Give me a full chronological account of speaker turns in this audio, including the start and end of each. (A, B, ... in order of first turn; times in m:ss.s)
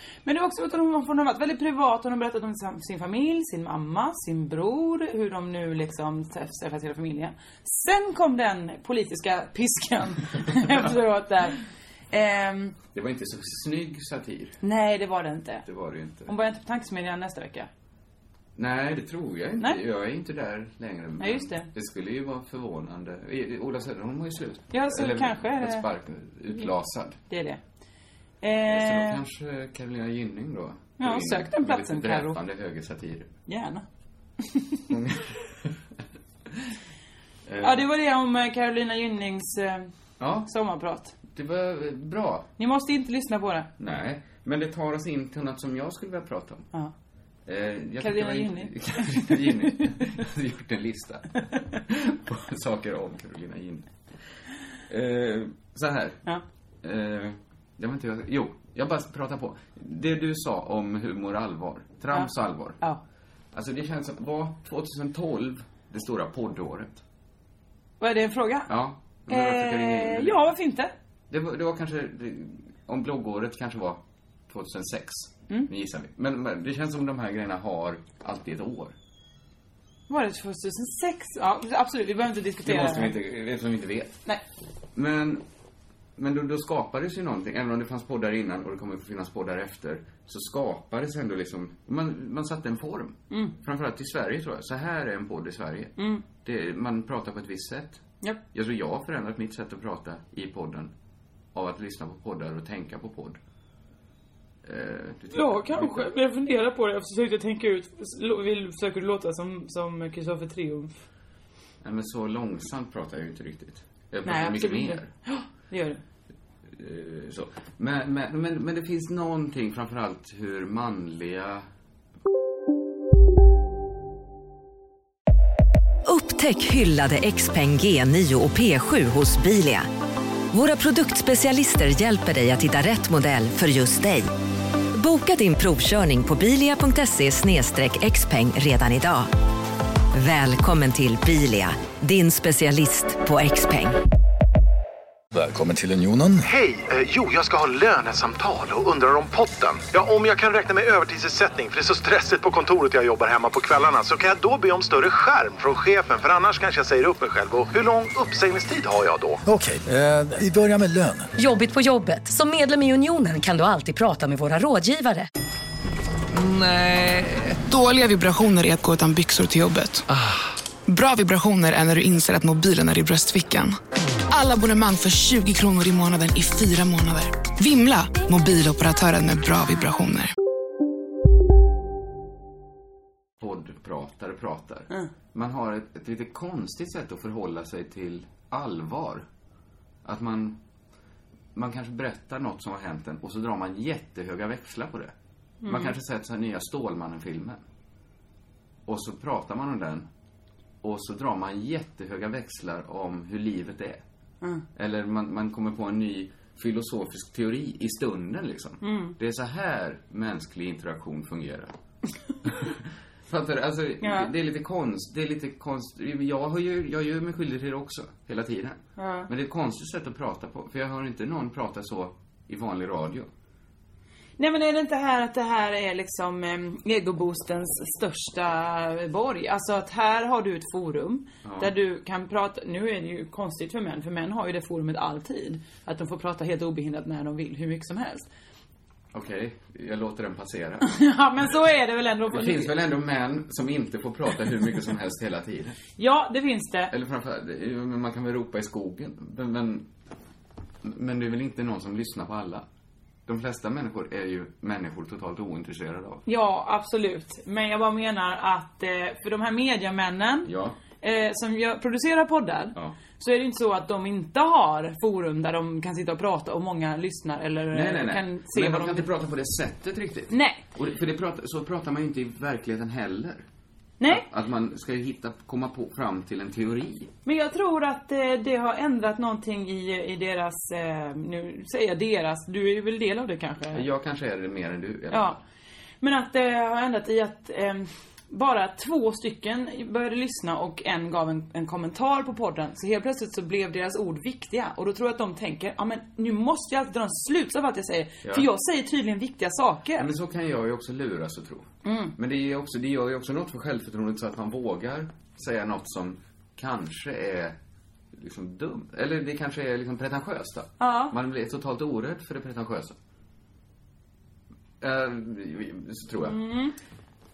0:00.2-0:11.6 A
0:12.1-0:12.8 A
0:12.9-0:14.6 B
0:14.6-0:15.6 A
0:15.6-0:16.3 B
0:16.3-0:17.7 A
0:18.6-0:27.2 B
0:21.2-0:21.7 A
0:24.7-0:25.8 A
0:27.3-0:27.6 A
0:28.4-0:29.2 A
0:28.7-0:33.3 B
0:31.0-0:32.4 A
0:33.5-0:33.8 A
0:34.4-0:34.8 A
0:34.9-0:35.7 B
0:37.5-0:37.8 B
0:37.6-0:39.9 A
0:40.2-0:40.5 B
0:40.4-0:41.2 A
0:41.3-0:42.5 B
0:42.6-0:43.7 A
0:43.8-0:46.7 B
0:47.4-0:53.9 B
0:48.0-0:49.9 A
0:54.9-0:56.2 B
0:56.8-1:02.8 B
1:02.1-1:03.0 A
1:03.5-1:07.0 B
1:08.0-1:08.7 A
1:08.7-1:10.5 B
1:09.3-1:10.9 A
1:11.3-1:18.9 B
1:20.1-1:23.2 A
1:22.6-1:24.2 B
1:24.9-1:25.4 B
1:26.2-1:38.0 B
1:36.0-1:36.2 A
1:38.5-1:40.9 B
1:41.5-1:43.4 B
1:44.6-1:46.1 B
1:45.3-1:51.0 A
1:51.8-1:55.1 B
1:54.2-1:56.0 A
1:56.7-2:01.7 B
2:06.0-2:09.9 C
2:10.5-2:14.3 C
2:14.9-2:19.3 C
2:20.1-2:24.0 C
2:25.3-2:26.4 D
2:26.4-2:39.4 E
2:39.4-2:41.3 D
2:41.4-2:45.3 F
2:46.4-2:50.0 G
2:50.9-2:53.8 G
2:54.3-3:00.3 G
3:03.4-3:09.2 B
3:10.0-3:10.6 B
3:11.5-3:15.1 B
3:15.6-3:15.9 A
3:15.6-3:17.6 B
3:18.8-3:20.1 B
3:20.8-3:24.0 B
3:24.8-3:31.7 B
3:28.8-3:29.2 A
3:32.4-3:43.3 B
3:34.0-3:34.3 A
3:39.0-3:39.3 A
3:44.4-3:58.3 A
3:51.4-3:51.7 B
3:59.1-4:00.9 B
4:00.8-4:02.7 A
4:02.3-4:05.8 B
4:06.0-4:06.9 A
4:06.9-4:09.9 B
4:10.8-4:12.6 B
4:13.3-4:16.2 B
4:16.2-4:29.1 A
4:20.4-4:20.8 B
4:27.7-4:33.4 B
4:30.3-4:30.6 A
4:34.0-4:34.2 A
4:34.0-4:37.1 B
4:37.2-4:43.8 A
4:43.7-4:45.4 B
4:45.1-4:45.4 A
4:46.0-5:00.1 A
5:00.0-5:07.6 B
5:01.8-5:02.1 A
5:08.1-5:13.0 B
5:10.8-5:11.1 A
5:14.8-5:16.4 B
5:16.2-5:16.8 A